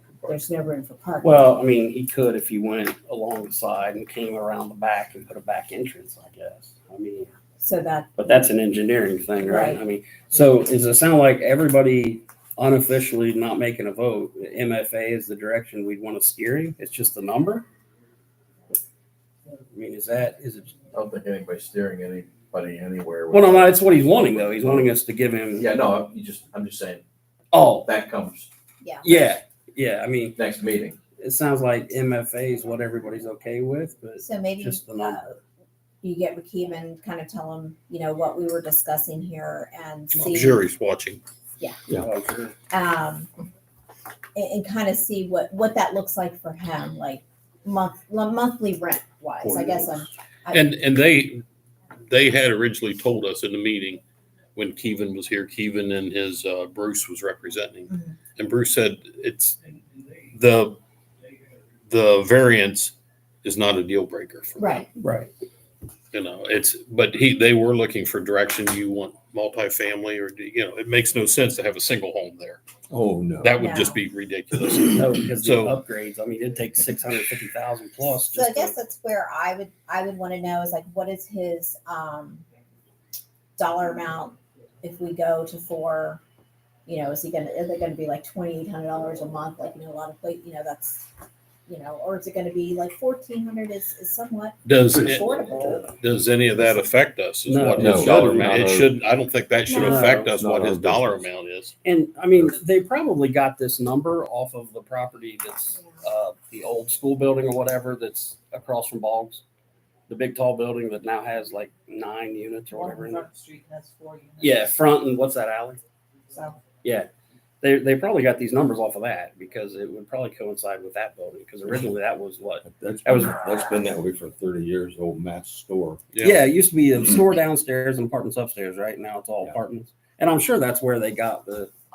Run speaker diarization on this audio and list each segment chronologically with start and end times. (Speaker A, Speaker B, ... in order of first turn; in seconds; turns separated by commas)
Speaker A: 0.2-1.5, Speaker B: 1.2-7.3, Speaker A: 7.6-8.1, Speaker B: 8.2-17.7, Speaker A: 9.4-9.8, Speaker B: 19.7-20.8, Speaker C: 20.9-23.7, Speaker B: 23.3-25.7, Speaker D: 24.1-24.8, Speaker C: 25.6-27.0, Speaker B: 27.5-27.9, Speaker C: 27.9-28.5, Speaker A: 28.8-29.4, Speaker B: 29.0-30.4, Speaker C: 30.4-30.9, Speaker B: 31.2-35.3, Speaker A: 34.2-35.4, Speaker A: 36.0-40.6, Speaker E: 40.1-41.2, Speaker B: 42.0-42.5, Speaker A: 42.7-43.5, Speaker A: 44.4-50.7, Speaker D: 49.5-49.9, Speaker E: 50.5-51.4, Speaker E: 52.1-54.0, Speaker E: 54.5-59.6, Speaker A: 57.9-58.2, Speaker E: 60.3-60.8, Speaker E: 61.9-64.8, Speaker A: 64.6-64.9, Speaker B: 65.0-65.3, Speaker E: 66.1-72.6, Speaker D: 72.9-73.6, Speaker E: 73.4-75.8, Speaker A: 73.6-74.0, Speaker B: 75.0-78.8, Speaker A: 78.3-82.5, Speaker A: 83.6-86.2, Speaker A: 86.9-91.1, Speaker A: 91.7-95.9, Speaker E: 94.7-101.7, Speaker B: 97.5-98.6, Speaker D: 97.8-99.0, Speaker A: 99.7-100.2, Speaker B: 99.7-100.3, Speaker D: 100.3-101.3, Speaker B: 101.8-109.4, Speaker B: 110.1-113.3, Speaker F: 112.7-114.7, Speaker B: 114.4-115.8, Speaker B: 116.8-117.1, Speaker B: 117.6-123.4, Speaker D: 122.7-126.1, Speaker E: 126.1-126.4, Speaker B: 126.2-131.7